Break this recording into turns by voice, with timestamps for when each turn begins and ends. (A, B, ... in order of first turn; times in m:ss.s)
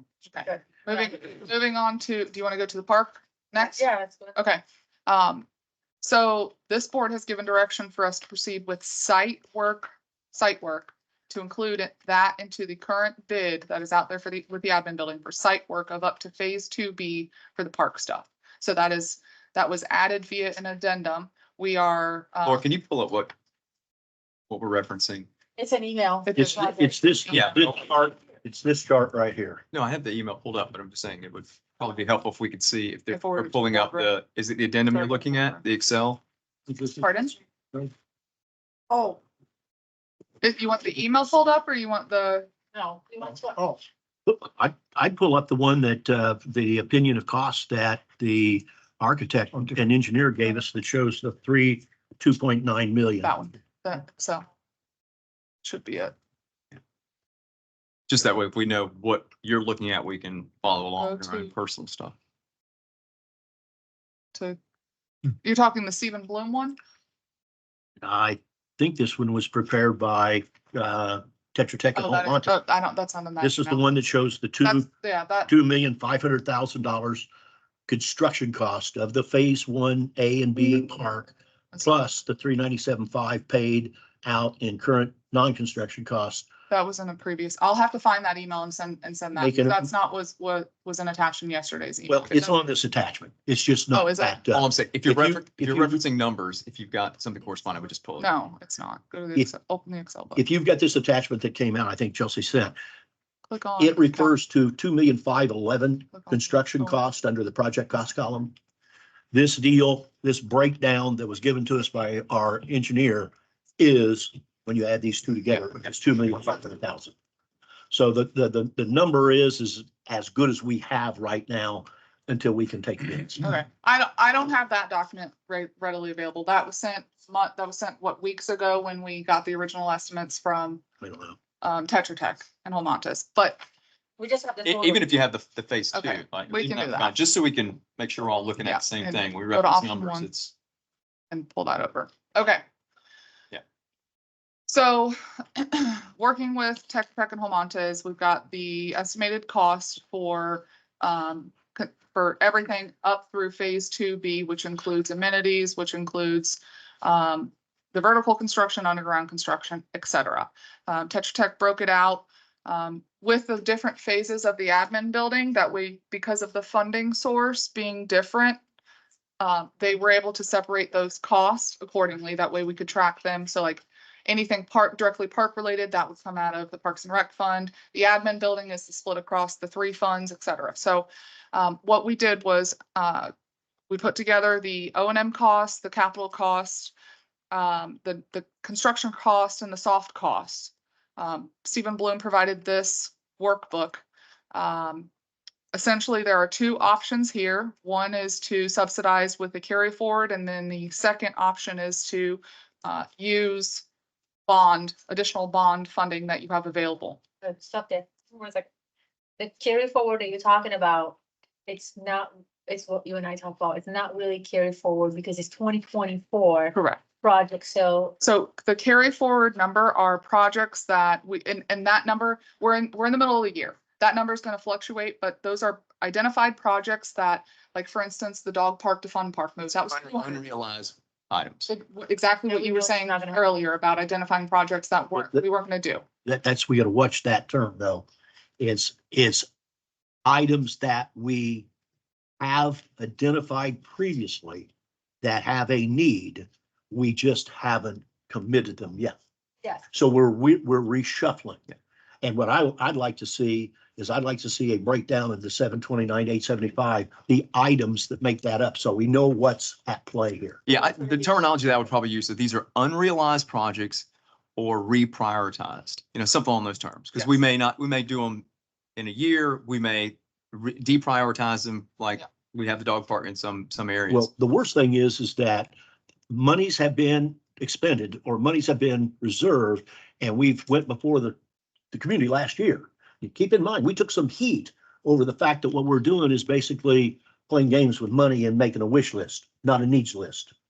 0:00.2-0:05.5 A
0:00.4-0:00.8 B
0:03.6-0:04.4 B
0:06.0-0:22.7 A
0:22.4-0:23.3 C
0:24.5-0:25.3 C
0:25.6-0:27.4 B
0:26.3-0:26.7 A
0:26.4-0:29.6 D
0:27.3-0:27.6 C
0:29.7-0:36.2 C
0:33.1-0:34.1 A
0:34.8-0:35.6 A
0:36.9-0:37.4 A
0:38.9-0:39.2 B
0:40.4-0:42.5 A
0:42.7-0:43.8 B
0:44.3-0:53.3 D
0:53.2-0:54.4 A
0:55.6-0:56.1 A
0:58.1-1:02.2 C
1:01.0-1:01.5 A
1:05.4-1:06.8 A
1:08.0-1:12.6 D
1:12.0-1:14.0 A
1:13.4-1:14.9 D
1:14.6-1:15.5 A
1:15.5-1:17.3 D
1:17.9-1:26.5 D
1:26.7-1:32.6 A
1:29.4-1:29.9 D
1:32.1-1:36.0 D
1:33.9-1:34.4 A
1:34.5-1:38.3 C
1:38.2-1:40.4 A
1:40.4-1:42.8 D
1:43.5-1:44.4 A
1:43.8-1:48.5 D
1:46.1-1:47.0 A
1:49.3-1:57.1 D
1:57.9-2:03.5 D
2:03.4-2:10.8 A
2:11.0-2:11.4 D
2:11.6-2:13.6 A
2:14.2-2:15.1 B
2:14.6-2:20.5 C
2:15.9-2:17.1 A
2:18.6-2:20.3 A
2:21.3-2:22.6 A
2:24.7-2:48.6 A
2:49.4-3:03.3 A
3:03.9-3:06.9 A
3:07.5-3:15.1 A
3:15.7-3:23.8 A
3:24.5-3:27.2 A
3:27.4-3:28.7 B
3:29.4-3:38.2 B
3:36.7-3:37.0 A
3:38.2-3:50.4 A
3:49.9-3:51.7 C
3:51.7-3:56.0 A
3:52.5-3:53.4 B
3:55.2-3:55.4 D
3:56.2-3:58.1 D
3:58.6-3:59.5 D
4:00.2-4:01.7 D
4:02.4-4:04.7 D
4:05.2-4:09.2 D
4:09.9-4:11.6 D
4:12.2-4:20.6 D
4:20.7-4:28.4 C
4:29.0-4:34.3 C
4:34.1-4:35.7 D
4:36.3-4:41.4 D
4:41.9-4:50.5 D